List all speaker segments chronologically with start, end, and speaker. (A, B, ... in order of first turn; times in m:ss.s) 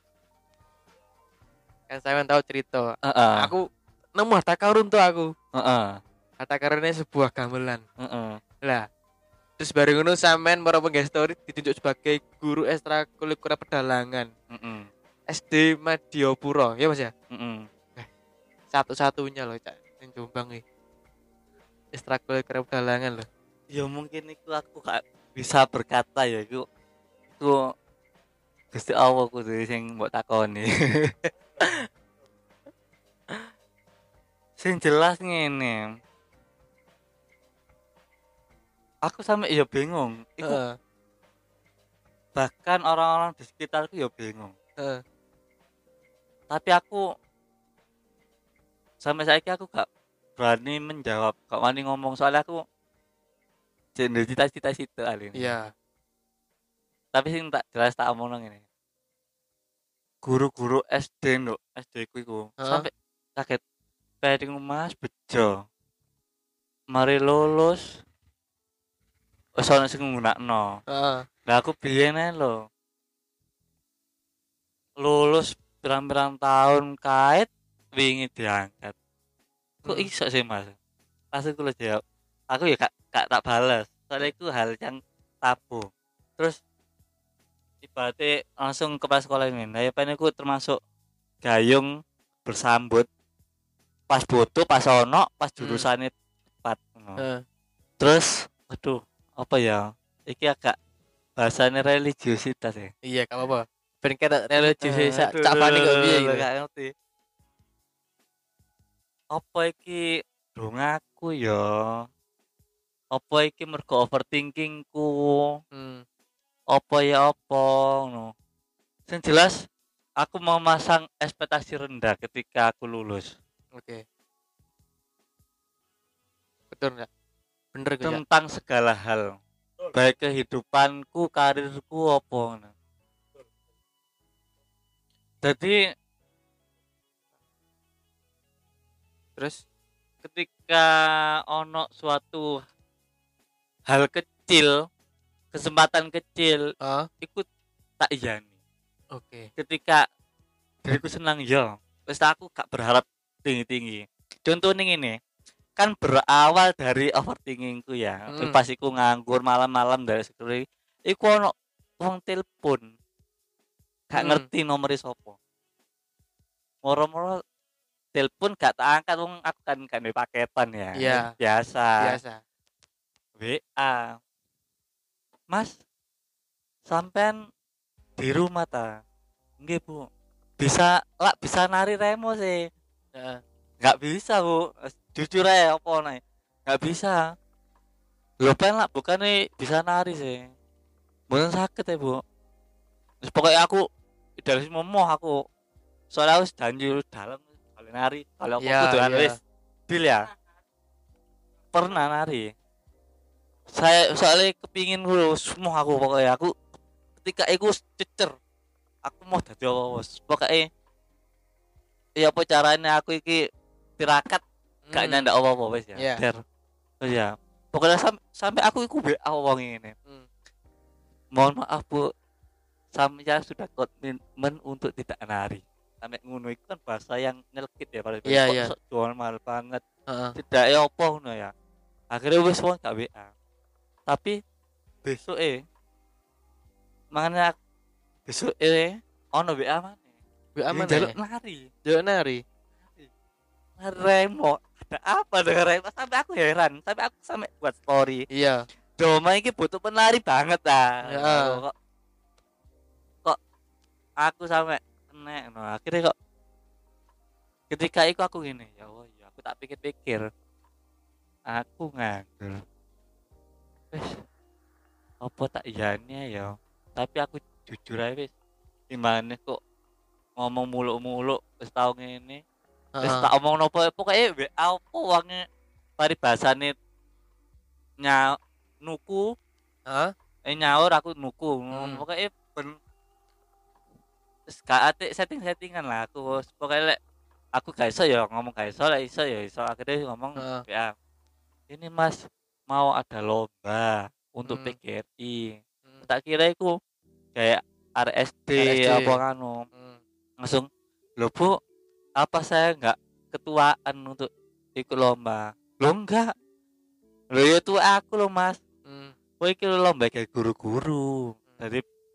0:01.9-0:03.6 A
0:03.0-0:03.5 B
0:04.2-0:05.3 A
0:05.6-0:06.0 B
0:06.4-0:07.8 A
0:08.0-0:08.4 B
0:09.6-0:14.3 A
0:14.5-0:14.9 B
0:15.3-0:17.1 A
0:17.3-0:17.7 B
0:18.7-0:20.6 A
0:21.9-0:23.3 A
0:23.7-0:26.6 B
0:28.7-0:31.9 B
0:34.6-0:35.8 B
0:39.1-0:40.6 B
0:40.4-0:40.8 A
0:42.4-0:44.5 B
0:46.5-0:47.0 B
0:49.0-0:49.9 B
0:50.4-0:52.6 B
0:54.0-0:55.5 B
0:55.4-0:55.7 A
0:57.1-0:58.6 B
1:00.2-1:03.6 B
1:04.2-1:05.5 B
1:06.9-1:07.8 B
1:09.6-1:10.8 B
1:10.9-1:11.3 A
1:11.5-1:12.6 B
1:15.0-1:19.0 B
1:19.9-1:20.8 B
1:21.3-1:22.0 B
1:22.5-1:26.6 B
1:27.8-1:30.8 B
1:31.4-1:31.9 B
1:32.5-1:33.1 B
1:34.1-1:36.1 B
1:35.6-1:35.9 A
1:36.6-1:37.2 B
1:37.2-1:37.4 A
1:38.0-1:40.8 B
1:41.4-1:42.9 B
1:43.1-1:46.4 A
1:44.6-1:46.9 B
1:49.3-1:50.0 B
1:50.6-1:52.0 B
1:53.1-1:55.4 B
1:55.7-1:56.0 A
1:56.7-1:58.3 B
1:59.1-1:59.6 B
2:00.2-2:03.3 B
2:03.8-2:04.0 A
2:06.7-2:07.1 A
2:07.7-2:08.2 A
2:08.0-2:09.3 B
2:09.9-2:12.7 B
2:15.4-2:15.8 B
2:20.2-2:20.9 B
2:21.5-2:22.5 B
2:23.9-2:24.8 B
2:25.5-2:26.6 B
2:26.8-2:27.1 A
2:27.2-2:27.5 B
2:28.0-2:28.5 B
2:29.1-2:29.5 A
2:29.6-2:30.0 B
2:30.9-2:35.2 B
2:35.8-2:42.8 B
2:38.3-2:38.6 A
2:44.1-2:45.4 B
2:44.2-2:44.4 A
2:46.9-2:47.4 B
2:48.2-2:52.2 B
2:51.0-2:51.3 A
2:52.0-2:52.4 A
2:53.4-2:54.2 B
2:55.5-2:55.8 B
2:56.9-2:57.4 B
2:58.2-2:58.9 B
2:59.6-3:00.0 B
3:00.6-3:02.6 B
3:03.2-3:03.4 A
3:03.8-3:07.2 B
3:08.4-3:10.5 B
3:11.3-3:12.2 B
3:13.2-3:13.8 B
3:14.4-3:15.4 B
3:16.1-3:19.4 B
3:18.6-3:19.3 A
3:19.9-3:20.2 B
3:21.7-3:22.5 B
3:23.8-3:26.5 B
3:27.2-3:28.3 B
3:29.0-3:30.7 B
3:32.2-3:33.4 B
3:34.0-3:34.4 B
3:34.9-3:35.3 A
3:34.9-3:36.4 B
3:37.0-3:39.9 B
3:41.4-3:42.0 B
3:43.0-3:49.8 B
3:48.3-3:48.7 A
3:50.1-3:50.4 A
3:50.4-3:51.5 B
3:52.1-3:53.3 B
3:54.1-3:54.4 B
3:55.0-3:55.6 B
3:57.1-3:57.6 B
3:58.3-4:00.1 B
4:00.6-4:01.1 A
4:00.7-4:01.7 B
4:01.9-4:02.4 A
4:03.8-4:08.2 B
4:08.3-4:08.6 A
4:09.0-4:11.7 B
4:11.1-4:11.6 A
4:14.2-4:16.1 B
4:17.7-4:20.2 B
4:21.5-4:22.6 B
4:23.9-4:24.2 B
4:25.2-4:28.3 B
4:28.9-4:29.6 B
4:30.4-4:32.4 B
4:33.0-4:33.3 A
4:33.0-4:35.4 B
4:36.0-4:36.7 B
4:38.0-4:38.3 B
4:38.8-4:39.2 B
4:39.9-4:40.1 A
4:40.5-4:42.8 B
4:41.7-4:42.0 A
4:44.5-4:47.0 B
4:47.6-4:50.9 B
4:50.4-4:50.6 A
4:51.7-4:52.2 B
4:52.7-4:56.7 B
4:54.5-4:54.8 A
4:57.4-4:59.7 B
4:58.6-4:59.2 A
4:59.7-5:00.0 A
5:00.4-5:00.7 B
5:01.2-5:01.5 B
5:02.2-5:06.3 B
5:07.3-5:08.6 B
5:08.9-5:09.1 A
5:09.4-5:11.8 B